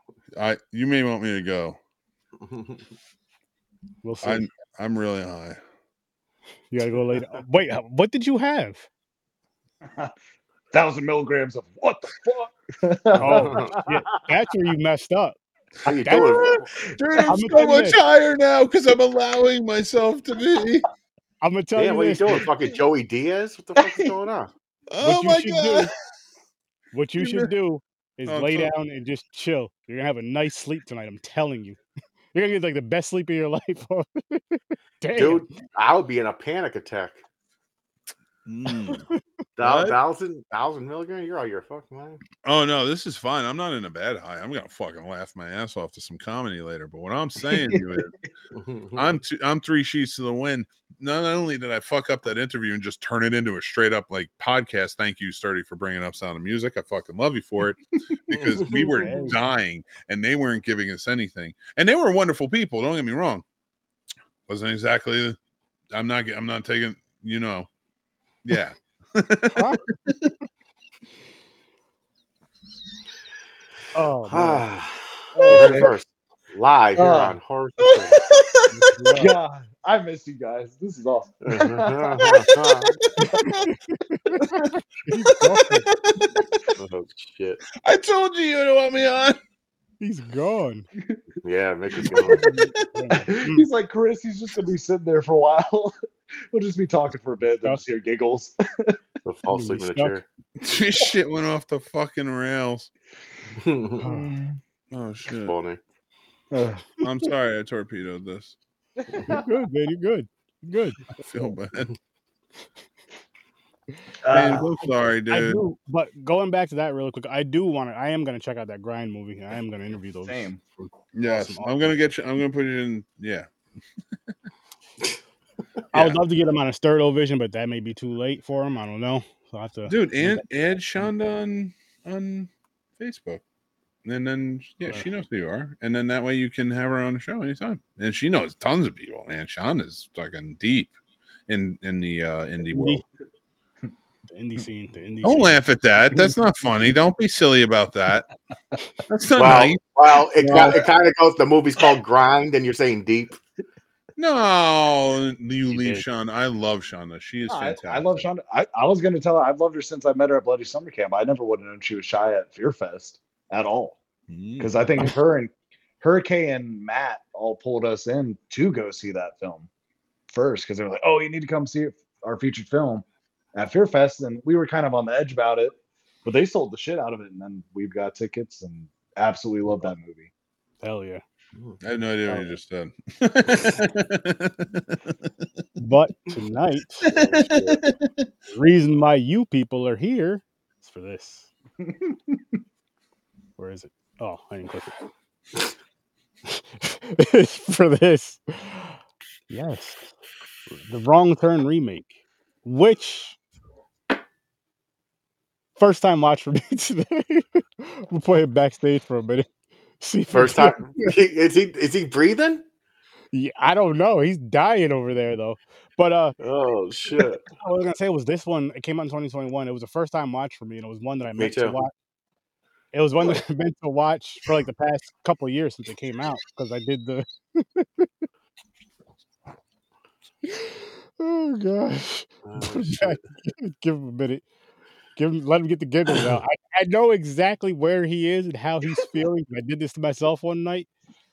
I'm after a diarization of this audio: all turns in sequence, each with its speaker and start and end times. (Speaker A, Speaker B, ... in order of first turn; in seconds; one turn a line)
Speaker A: 0.4-1.8
Speaker B: 2.4-2.8
Speaker C: 4.0-4.5
Speaker A: 4.2-5.6
Speaker C: 6.7-8.9
Speaker D: 9.8-10.1
Speaker D: 10.7-14.0
Speaker B: 13.2-13.7
Speaker C: 13.2-16.4
Speaker B: 15.9-16.7
Speaker A: 16.1-20.9
Speaker D: 17.0-17.4
Speaker C: 17.3-18.0
Speaker C: 21.4-22.4
Speaker B: 21.8-24.5
Speaker D: 23.8-24.1
Speaker A: 24.9-25.9
Speaker C: 25.0-25.9
Speaker C: 26.9-31.8
Speaker A: 27.2-27.5
Speaker A: 28.3-28.7
Speaker C: 32.3-35.5
Speaker B: 35.2-37.2
Speaker A: 38.5-39.1
Speaker C: 38.9-39.2
Speaker B: 39.6-42.2
Speaker A: 39.6-40.0
Speaker A: 42.4-48.1
Speaker D: 47.5-48.0
Speaker B: 48.5-49.2
Speaker A: 49.0-63.4
Speaker B: 58.3-59.2
Speaker C: 58.9-59.4
Speaker A: 64.5-65.4
Speaker A: 65.9-67.7
Speaker A: 68.5-70.3
Speaker C: 69.5-69.8
Speaker C: 74.0-74.7
Speaker B: 74.3-78.2
Speaker D: 75.3-76.0
Speaker C: 75.5-75.9
Speaker D: 77.0-77.4
Speaker A: 78.0-78.6
Speaker C: 78.7-79.3
Speaker D: 79.2-82.5
Speaker B: 81.4-83.0
Speaker A: 82.5-83.7
Speaker C: 83.4-85.9
Speaker A: 84.4-84.7
Speaker A: 85.5-86.6
Speaker B: 86.8-87.6
Speaker A: 87.8-89.4
Speaker C: 90.0-90.9
Speaker D: 91.0-91.2
Speaker B: 91.4-92.5
Speaker A: 92.0-92.7
Speaker D: 92.0-92.7
Speaker C: 92.5-93.7
Speaker D: 93.3-96.0
Speaker D: 96.5-99.0
Speaker B: 99.2-100.2
Speaker C: 99.5-100.2
Speaker A: 100.6-102.9
Speaker B: 103.6-104.0
Speaker C: 104.0-104.4
Speaker D: 104.0-104.6
Speaker A: 104.9-105.5
Speaker B: 105.3-105.8
Speaker D: 106.5-106.9
Speaker A: 107.0-108.6
Speaker D: 109.0-109.6
Speaker C: 109.3-111.0
Speaker A: 111.2-111.9
Speaker D: 114.2-114.7
Speaker A: 114.3-115.6
Speaker C: 115.3-121.9
Speaker D: 120.2-120.6
Speaker A: 121.2-123.5
Speaker C: 125.9-129.9
Speaker A: 125.9-126.2
Speaker A: 129.9-133.4
Speaker A: 134.1-140.9
Speaker A: 141.5-143.1
Speaker C: 142.7-143.0
Speaker C: 144.3-145.6
Speaker A: 145.2-148.3
Speaker A: 149.1-149.8
Speaker B: 149.4-153.4
Speaker A: 150.4-150.9
Speaker A: 154.2-158.3
Speaker C: 155.7-156.1
Speaker D: 157.5-164.0
Speaker A: 164.3-165.2
Speaker D: 164.6-169.7
Speaker D: 170.3-173.0
Speaker D: 173.6-180.3
Speaker C: 180.8-181.2
Speaker A: 181.8-185.2
Speaker C: 185.8-187.7
Speaker A: 187.1-188.3
Speaker B: 187.2-187.6
Speaker C: 188.5-191.5
Speaker D: 191.8-192.4
Speaker C: 193.6-195.0
Speaker C: 196.5-199.0
Speaker C: 199.5-200.1
Speaker C: 200.7-203.4
Speaker C: 205.8-209.5
Speaker C: 210.0-211.1
Speaker B: 210.3-212.6
Speaker C: 213.3-216.3
Speaker B: 216.4-217.4
Speaker C: 217.6-221.9
Speaker B: 221.4-221.8
Speaker C: 222.9-228.2
Speaker C: 230.5-234.4
Speaker B: 232.4-233.2
Speaker C: 235.2-240.9